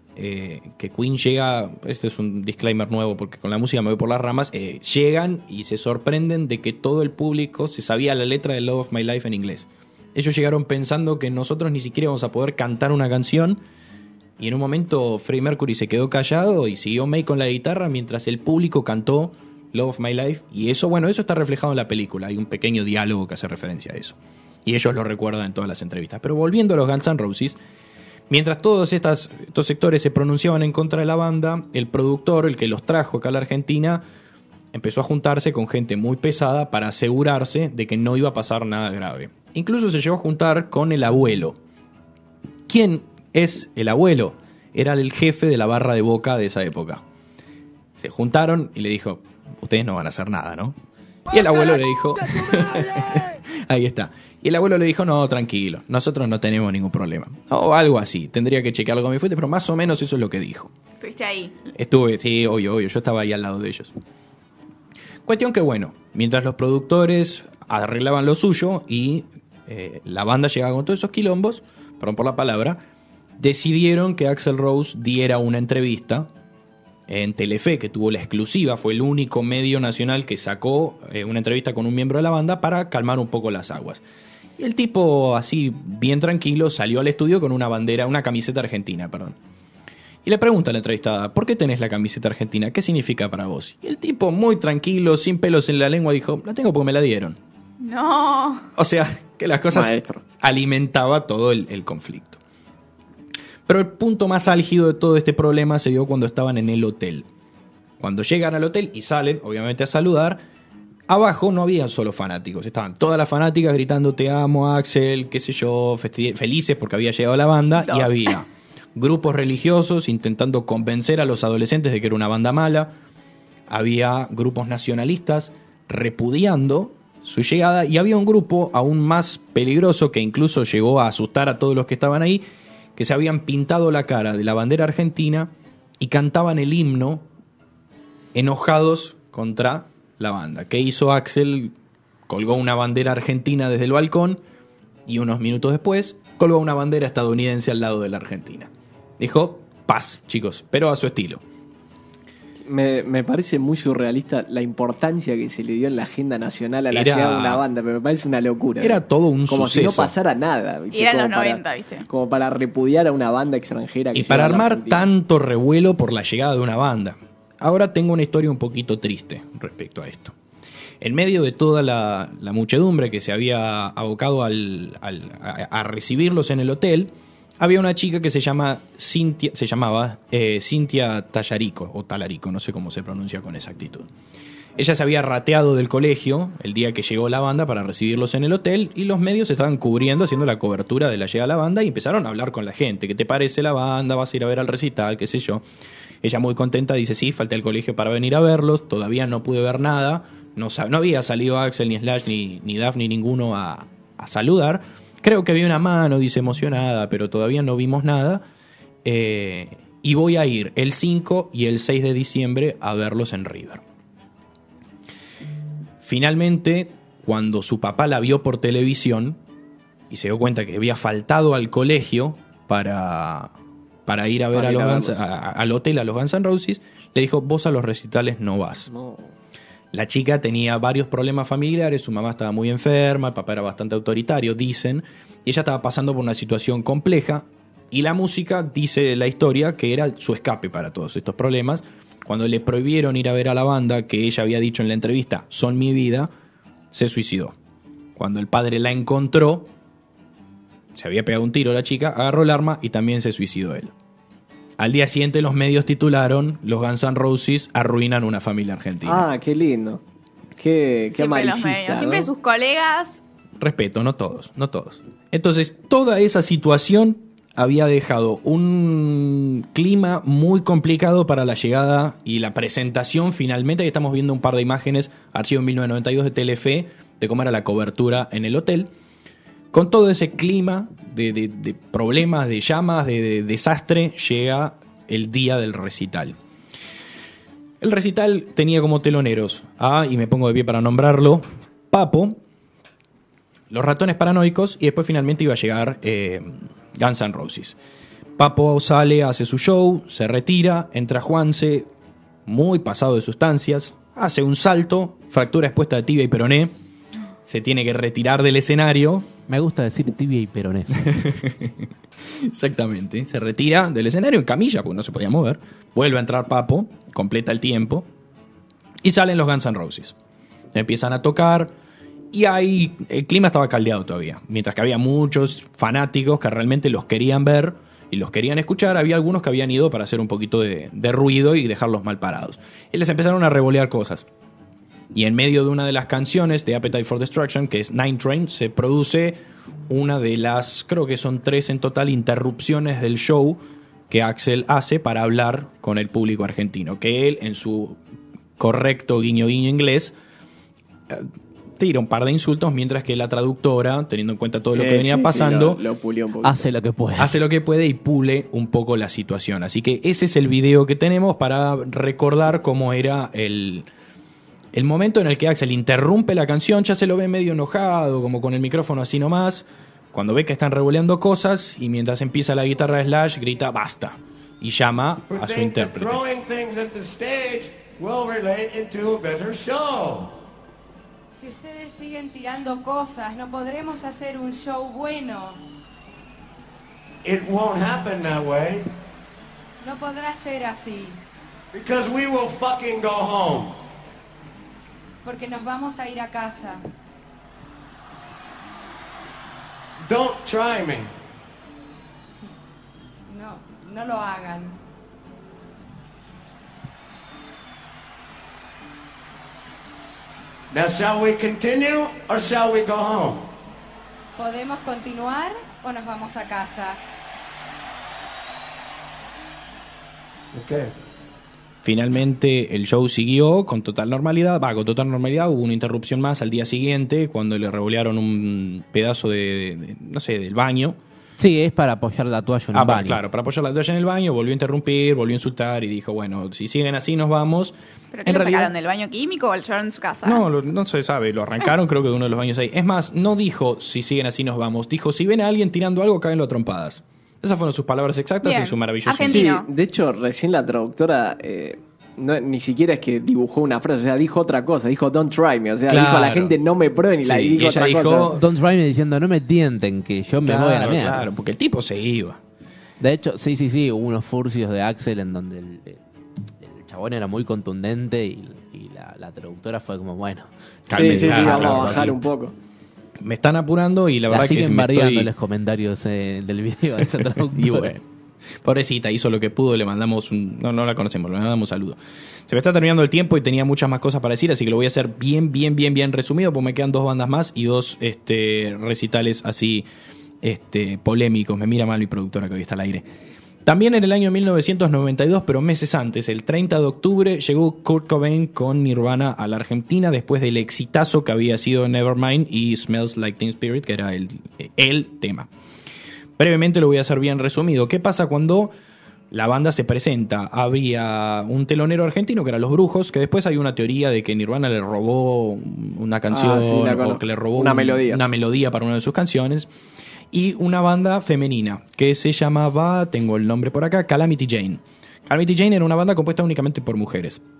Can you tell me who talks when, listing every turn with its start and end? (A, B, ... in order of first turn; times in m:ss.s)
0:00.2-0:13.6 A
0:14.4-0:27.6 A
0:28.3-0:34.0 A
0:34.7-0:41.6 A
0:42.7-0:47.0 A
0:48.0-0:50.8 A
0:51.3-1:00.7 A
1:01.0-1:01.7 B
1:01.7-1:03.9 A
1:05.2-1:12.8 A
1:13.4-1:16.3 A
1:17.1-1:24.0 A
1:24.6-1:29.4 A
1:30.2-1:37.4 A
1:37.8-1:38.6 B
1:38.8-1:42.4 A
1:39.7-1:40.2 C
1:43.7-1:47.3 A
1:48.0-1:50.4 A
1:51.1-2:02.9 A
1:57.9-1:58.2 B
2:03.7-2:12.4 A
2:13.0-2:17.2 A
2:18.3-2:21.7 A
2:22.3-2:24.4 A
2:25.1-2:31.4 A
2:32.6-2:45.0 C
2:36.9-2:37.6 A
2:38.8-2:40.1 A
2:40.9-2:42.1 B
2:44.1-2:50.3 A
2:51.0-3:04.1 A
3:04.8-3:15.6 A
3:16.2-3:28.4 A
3:29.0-3:33.8 A
3:36.0-3:39.4 A
3:40.1-3:43.5 A
3:44.0-3:48.9 A
3:44.5-3:45.2 C
3:48.9-3:49.3 C
3:49.9-4:06.3 A
4:06.9-4:07.5 A
4:08.2-4:09.7 A
4:10.9-4:13.9 A
4:14.8-4:19.3 A
4:19.0-4:20.0 C
4:20.6-4:22.3 C
4:21.1-4:23.2 B
4:23.6-4:38.9 A
4:39.7-4:46.4 A
4:47.8-4:52.4 A
4:53.7-4:57.8 A
4:58.4-5:01.9 A
5:02.4-5:06.7 A
5:07.4-5:09.3 A
5:09.5-5:11.1 D
5:11.0-5:18.1 A
5:19.0-5:20.1 A
5:20.7-5:21.7 A
5:22.3-5:34.3 A
5:35.1-5:48.0 A
5:48.6-5:50.2 A
5:51.1-5:55.8 A
5:54.7-5:56.7 C
5:56.4-5:57.3 D
5:57.2-6:03.9 A
6:04.7-6:16.2 A
6:15.3-6:20.4 E
6:21.3-6:25.6 F
6:27.2-6:28.8 E
6:29.8-6:31.2 F
6:31.7-6:33.8 E
6:35.2-6:36.8 F
6:40.0-6:41.1 E
6:43.3-6:44.8 F
6:50.7-6:53.5 E
6:54.4-6:57.0 F
7:00.5-7:00.9 E
7:01.8-7:11.0 A
7:11.4-7:13.2 D
7:12.7-7:18.7 A
7:18.1-7:20.4 B
7:20.2-7:29.5 A
7:28.4-7:29.7 B
7:29.3-7:38.3 C
7:35.9-7:36.6 A
7:37.2-7:38.4 A
7:38.3-7:41.3 D
7:40.4-7:42.4 A
7:43.0-7:46.0 D
7:46.6-7:52.1 D
7:50.9-7:52.2 A
7:50.9-7:52.5 C
7:53.2-7:55.3 A
7:54.3-7:57.9 D
7:57.4-7:58.0 A
7:58.6-8:09.8 A
8:10.4-8:13.0 A
8:13.6-8:25.5 A
8:26.4-8:28.7 A
8:29.3-8:39.7 A
8:36.3-8:38.2 C
8:40.3-8:47.4 A